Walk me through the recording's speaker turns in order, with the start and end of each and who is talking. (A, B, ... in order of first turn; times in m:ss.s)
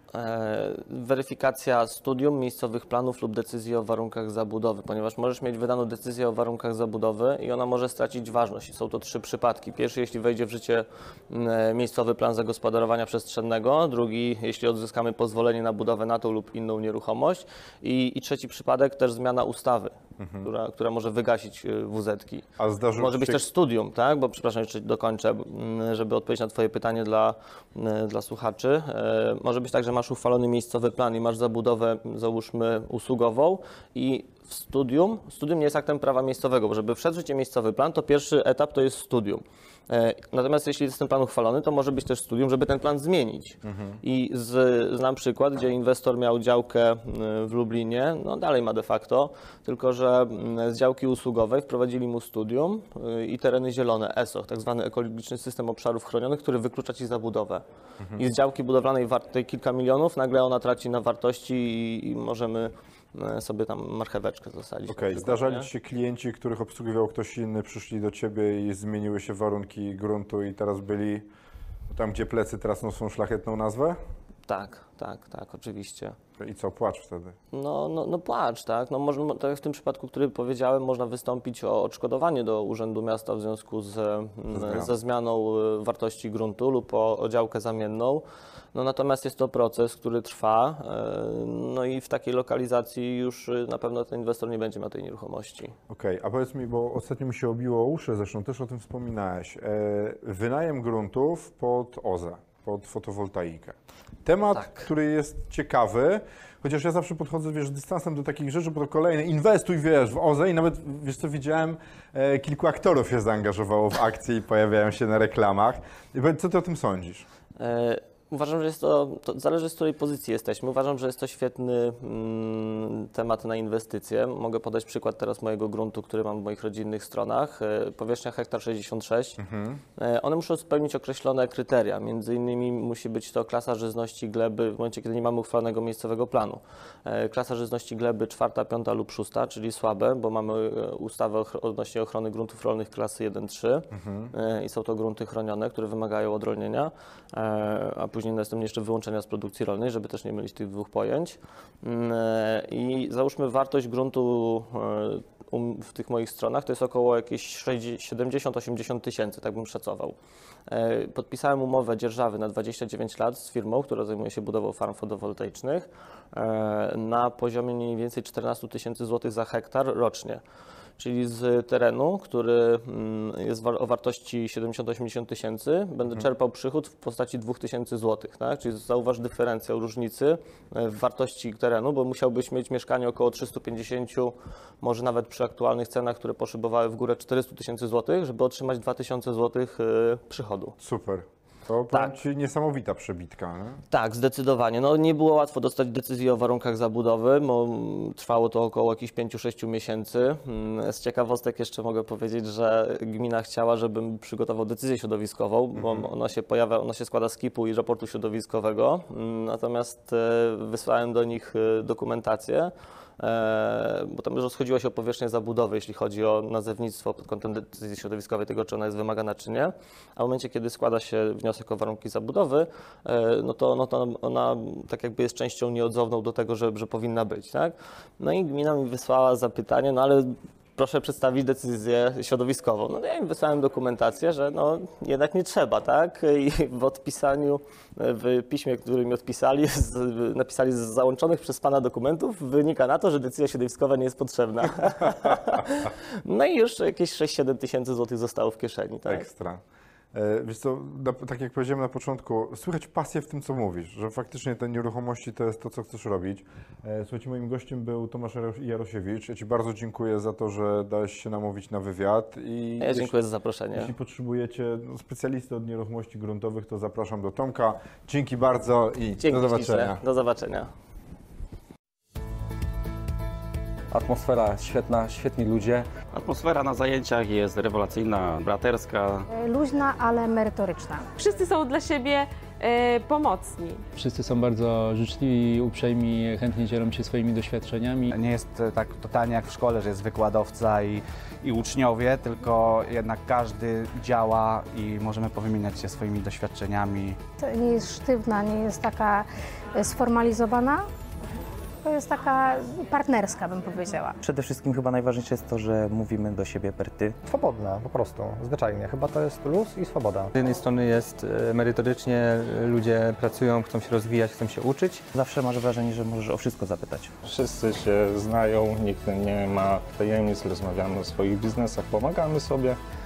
0:00.1-0:22.4 A
0:20.2-0:20.5 B
0:22.6-0:23.4 B
0:23.0-0:57.6 A
0:43.6-0:44.0 B
0:58.2-1:05.7 A
1:04.9-1:11.3 B
1:11.9-1:14.0 B
1:14.5-1:16.2 A
1:16.4-1:17.4 B
1:17.5-1:28.2 A
1:24.5-1:24.9 B
1:28.7-1:35.7 A
1:35.9-1:57.2 B
1:44.5-1:44.8 A
1:57.6-2:09.4 A
2:09.4-2:09.8 B
2:10.0-2:40.1 A
2:23.9-2:24.3 B
2:40.7-2:50.4 A
2:51.0-3:10.7 A
3:10.8-3:13.8 B
3:13.9-4:09.3 A
3:25.8-3:26.0 B
4:09.0-4:09.6 B
4:10.1-4:23.1 B
4:22.8-4:23.9 A
4:23.7-4:30.0 B
4:29.2-4:30.7 A
4:33.9-4:35.9 C
4:36.1-4:39.3 D
4:39.3-4:41.1 E
4:41.2-4:43.8 F
4:43.9-4:48.1 G
4:48.1-4:57.2 H
4:57.4-5:00.8 E
5:01.8-5:04.2 E
5:04.2-5:07.2 I
5:07.2-5:10.3 J
5:10.3-5:15.1 K
5:15.1-5:17.1 I
5:17.2-5:22.8 L